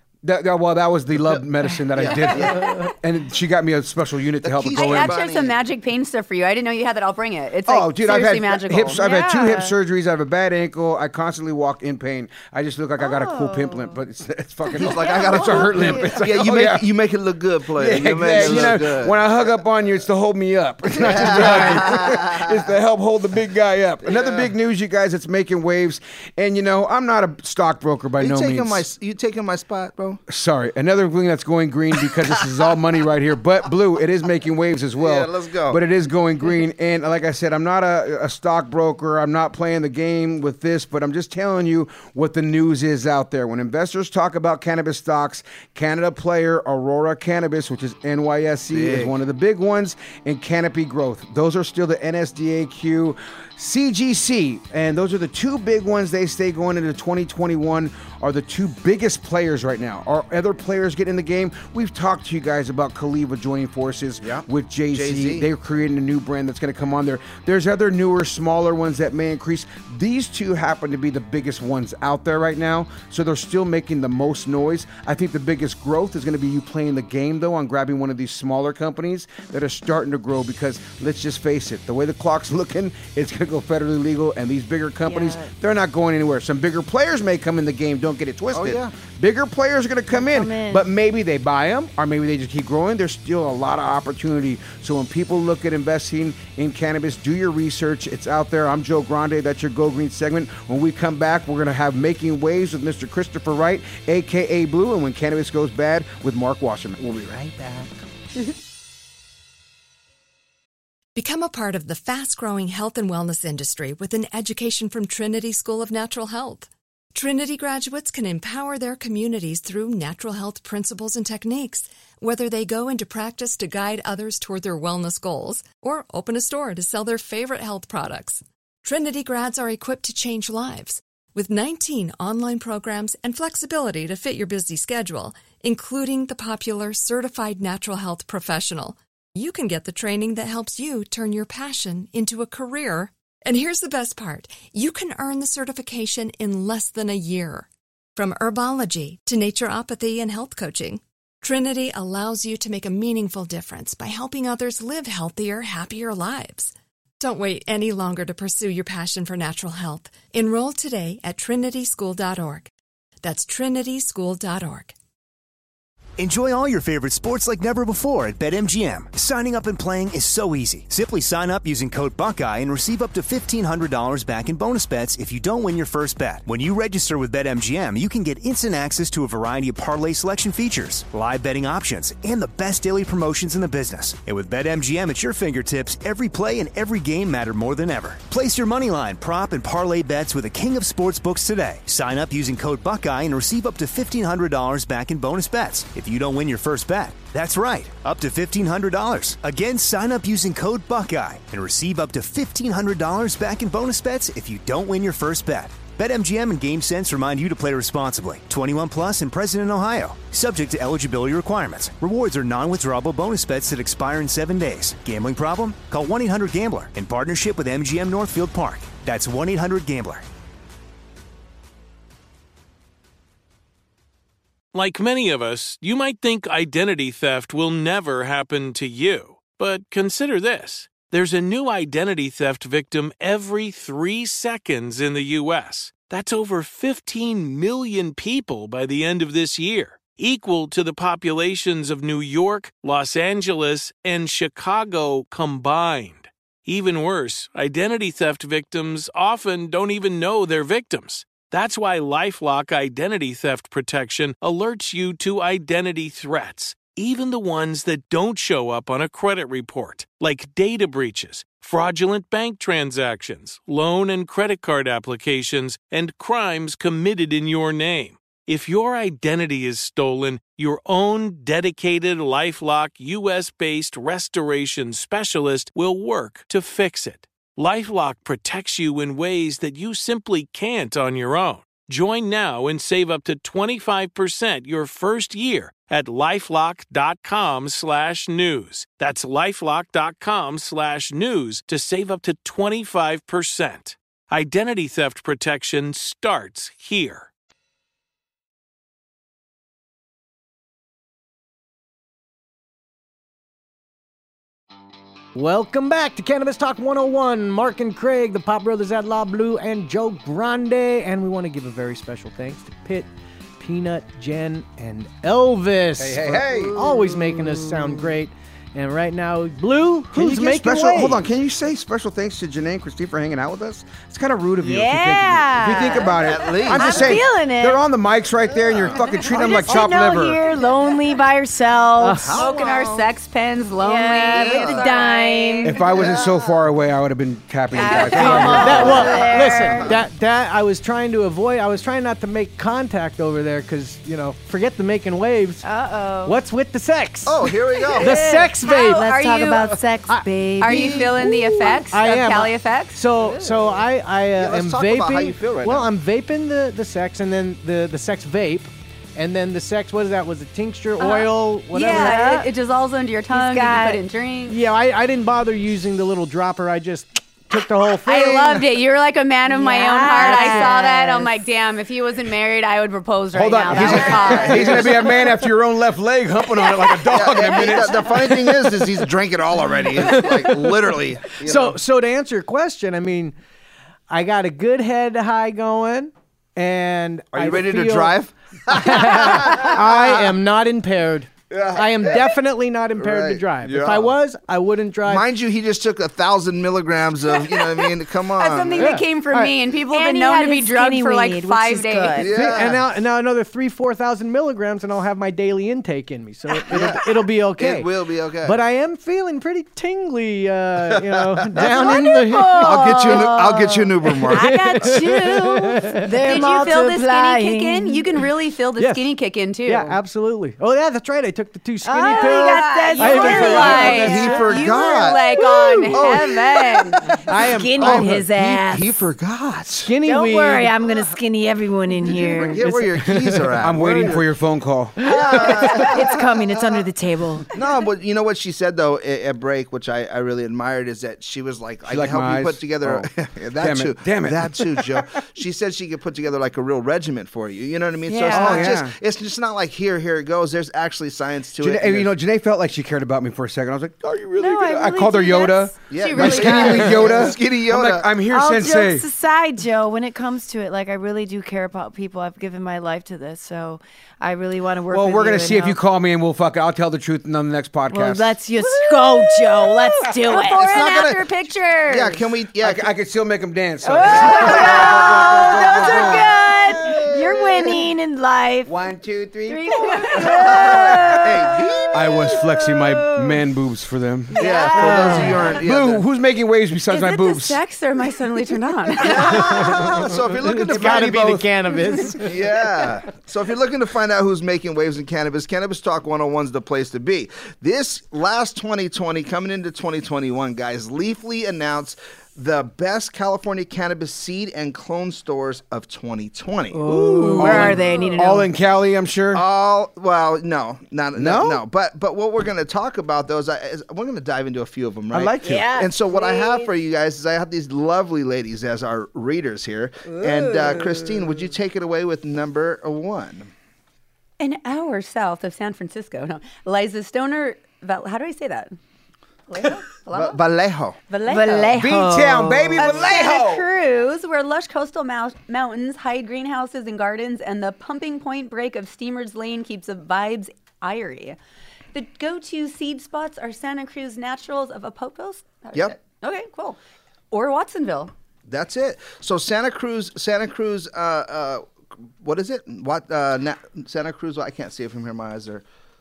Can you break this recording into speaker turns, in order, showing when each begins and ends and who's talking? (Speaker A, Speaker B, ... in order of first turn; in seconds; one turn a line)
Speaker A: 0.2-5.2
Speaker B: 1.9-2.9
Speaker B: 4.4-5.6
Speaker C: 4.7-9.0
Speaker A: 7.7-16.9
Speaker D: 9.0-9.8
Speaker D: 13.0-13.9
Speaker B: 14.7-19.3
Speaker D: 14.8-16.3
Speaker A: 17.8-28.9
Speaker B: 20.9-22.6
Speaker B: 24.1-24.5
Speaker B: 28.2-30.2
Speaker A: 30.3-107.1
Speaker B: 35.0-35.8
Speaker B: 48.7-49.1
Speaker B: 64.2-65.5
Speaker D: 85.0-85.5
Speaker B: 88.5-88.9
Speaker D: 90.1-90.9
Speaker E: 111.1-162.7
Speaker E: 163.2-164.9
Speaker F: 166.2-220.2
Speaker G: 224.7-297.3
Speaker H: 305.4-313.1
Speaker H: 313.6-321.2
Speaker A: 316.0-316.8
Speaker D: 316.5-318.0
Speaker A: 320.1-330.4
Speaker D: 324.6-327.8
Speaker B: 326.2-327.2
Speaker B: 328.8-329.8
Speaker D: 329.3-333.1
Speaker H: 332.0-332.4
Speaker B: 332.2-332.6
Speaker C: 332.3-335.9
Speaker D: 333.8-335.8
Speaker B: 334.3-334.9
Speaker A: 335.6-339.1
Speaker D: 337.8-339.9
Speaker C: 337.9-339.2
Speaker H: 338.6-345.6
Speaker D: 345.6-346.4
Speaker H: 346.2-349.1
Speaker B: 347.3-348.2
Speaker D: 347.9-351.8
Speaker C: 348.6-349.8
Speaker H: 350.1-362.2
Speaker C: 350.6-353.1
Speaker B: 350.8-351.1
Speaker B: 354.4-355.9
Speaker C: 361.0-364.6
Speaker D: 361.8-362.5
Speaker D: 363.3-364.0
Speaker H: 364.5-368.6
Speaker C: 368.1-375.0
Speaker D: 369.4-371.4
Speaker A: 373.3-378.5
Speaker D: 373.7-374.4
Speaker B: 373.7-375.1
Speaker B: 377.1-381.8
Speaker H: 380.0-383.4
Speaker H: 384.1-388.2
Speaker B: 387.3-390.3
Speaker H: 388.7-395.3
Speaker B: 391.5-392.3
Speaker B: 393.0-394.1
Speaker B: 395.1-399.0
Speaker C: 398.4-402.4
Speaker H: 398.8-399.6
Speaker D: 399.9-402.3
Speaker B: 402.2-402.8
Speaker H: 402.2-407.9
Speaker D: 406.7-406.9
Speaker B: 406.7-407.0
Speaker B: 407.6-408.6
Speaker H: 408.4-413.3
Speaker B: 410.9-412.0
Speaker D: 411.6-418.1
Speaker B: 412.6-415.0
Speaker H: 414.1-416.2
Speaker C: 416.1-420.0
Speaker H: 418.8-419.1
Speaker H: 419.6-424.7
Speaker D: 421.9-424.3
Speaker C: 422.0-427.0
Speaker B: 423.6-427.2
Speaker H: 425.5-426.1
Speaker H: 427.3-428.2
Speaker D: 427.5-428.9
Speaker B: 427.8-429.9
Speaker H: 429.9-430.9
Speaker D: 430.0-432.6
Speaker B: 432.0-434.2
Speaker H: 432.6-434.2
Speaker A: 433.6-435.6
Speaker B: 435.0-436.7
Speaker D: 435.3-437.5
Speaker B: 437.5-452.1
Speaker A: 441.9-445.0
Speaker D: 448.1-448.8
Speaker A: 448.3-448.9
Speaker A: 451.6-459.1
Speaker D: 454.4-457.3
Speaker B: 455.9-458.1
Speaker C: 456.2-456.8
Speaker D: 458.3-465.8
Speaker A: 464.9-468.4
Speaker D: 467.9-470.9
Speaker C: 468.6-472.2
Speaker B: 470.5-471.3
Speaker B: 471.9-472.9
Speaker A: 472.6-476.4
Speaker D: 473.9-478.7
Speaker B: 474.1-477.6
Speaker A: 478.7-481.3
Speaker D: 479.5-483.3
Speaker B: 480.2-482.2
Speaker A: 481.9-487.6
Speaker D: 484.4-485.5
Speaker B: 484.4-486.1
Speaker C: 484.4-485.4
Speaker C: 486.9-489.7
Speaker B: 489.0-491.3
Speaker H: 489.3-489.7
Speaker H: 490.4-492.4
Speaker A: 490.6-492.1
Speaker B: 492.2-506.8
Speaker A: 506.7-509.4
Speaker H: 506.8-507.8
Speaker D: 507.3-508.5
Speaker B: 507.4-507.7
Speaker B: 509.3-523.5
Speaker A: 511.1-511.6
Speaker A: 515.1-515.7
Speaker D: 515.4-516.7
Speaker D: 520.1-521.3
Speaker C: 524.4-528.8
Speaker C: 529.5-530.4
Speaker B: 530.1-531.0
Speaker C: 531.1-541.4
Speaker D: 531.2-533.0
Speaker A: 531.7-533.7
Speaker C: 541.9-546.8
Speaker C: 547.3-548.1
Speaker B: 548.5-551.7
Speaker B: 552.2-555.6